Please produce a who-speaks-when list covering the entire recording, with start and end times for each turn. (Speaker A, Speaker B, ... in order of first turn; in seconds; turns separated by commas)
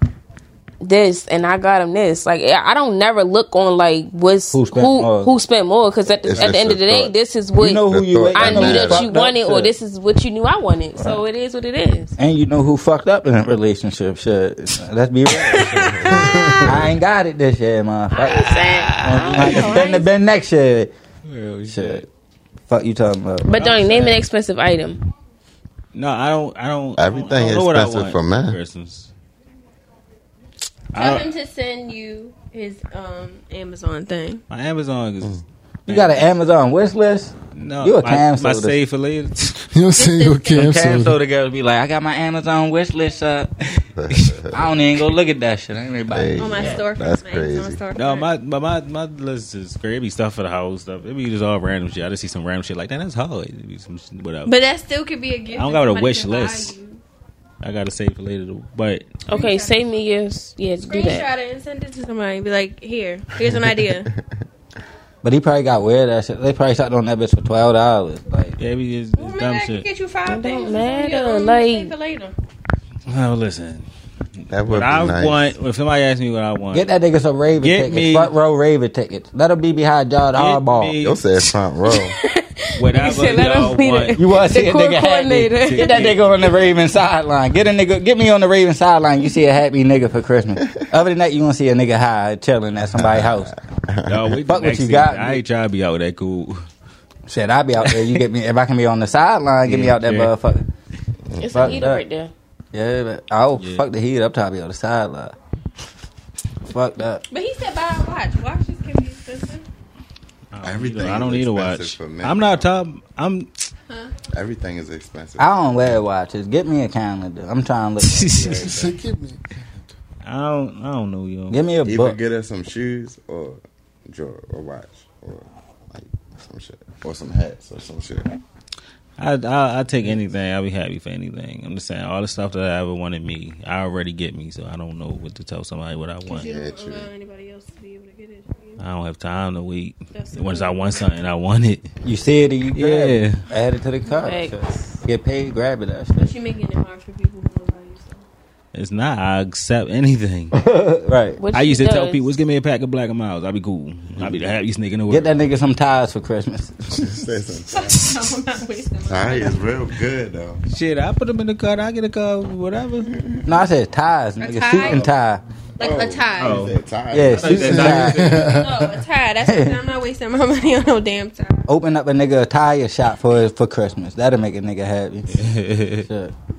Speaker A: 0.8-12.1, Speaker B: 4.5-5.3, Speaker C: 6.2-7.1, Speaker B: 7.6-9.7, Speaker C: 7.9-9.1, Speaker B: 12.2-20.9, Speaker C: 15.7-16.9, Speaker A: 18.1-20.0, Speaker D: 18.3-19.9, Speaker E: 19.6-20.0, Speaker D: 21.2-22.0, Speaker B: 21.7-22.1, Speaker B: 22.7-23.5, Speaker A: 23.4-25.0, Speaker D: 23.5-24.2, Speaker D: 25.9-29.1, Speaker C: 27.0-28.6, Speaker D: 30.9-31.3, Speaker E: 30.9-34.4, Speaker D: 34.5-36.3, Speaker B: 35.9-38.8, Speaker D: 37.5-39.6, Speaker F: 39.7-41.1, Speaker E: 39.9-40.6, Speaker B: 40.5-43.5, Speaker C: 43.9-44.7, Speaker B: 44.5-46.8, Speaker C: 46.1-47.8, Speaker E: 46.4-48.3, Speaker D: 47.9-54.5, Speaker E: 54.4-57.0, Speaker D: 55.5-56.7, Speaker D: 57.6-59.1, Speaker A: 59.3-61.3, Speaker E: 59.3-60.0, Speaker E: 60.8-64.1, Speaker C: 63.4-64.1, Speaker B: 65.2-68.5, Speaker D: 68.6-69.8, Speaker E: 69.2-72.3, Speaker A: 70.2-71.9, Speaker D: 73.1-73.9, Speaker C: 74.5-75.5, Speaker D: 74.6-76.9, Speaker B: 76.7-80.9, Speaker D: 77.6-78.3, Speaker D: 80.3-81.2, Speaker C: 81.0-82.2, Speaker A: 81.9-86.1, Speaker D: 82.8-84.2, Speaker B: 84.2-93.5, Speaker D: 85.5-86.3, Speaker C: 92.9-94.4, Speaker D: 94.0-96.7, Speaker B: 94.5-95.4, Speaker B: 97.3-100.7, Speaker D: 99.6-100.3, Speaker C: 101.3-101.8, Speaker A: 101.4-102.3, Speaker B: 101.5-102.0, Speaker B: 102.7-105.3, Speaker D: 103.6-103.8, Speaker B: 106.7-107.2, Speaker E: 107.3-109.7, Speaker D: 110.5-113.5, Speaker C: 110.6-112.7, Speaker C: 114.3-115.6, Speaker B: 115.4-118.9, Speaker D: 118.0-118.8, Speaker F: 118.6-119.6, Speaker D: 120.2-121.6, Speaker B: 121.5-122.2, Speaker C: 121.8-128.3, Speaker D: 129.2-136.5, Speaker E: 136.3-138.8, Speaker C: 136.3-137.1, Speaker D: 138.8-141.9, Speaker E: 140.1-141.1, Speaker B: 142.0-146.3, Speaker D: 142.8-143.4, Speaker A: 144.1-145.0, Speaker E: 146.2-148.2, Speaker D: 148.7-150.6, Speaker B: 150.5-151.4, Speaker A: 151.4-152.3, Speaker D: 151.5-155.4, Speaker B: 155.1-157.2, Speaker C: 156.9-158.1, Speaker E: 157.7-159.6, Speaker C: 159.1-160.6, Speaker D: 160.7-163.1, Speaker B: 163.4-165.4, Speaker E: 164.4-165.1, Speaker E: 165.8-166.7, Speaker C: 165.8-167.8, Speaker D: 166.4-166.7, Speaker B: 167.1-168.4, Speaker D: 167.3-168.5, Speaker F: 167.5-168.9, Speaker E: 168.4-171.7, Speaker B: 169.4-169.8, Speaker B: 171.7-175.4, Speaker D: 175.3-176.1, Speaker B: 176.1-176.3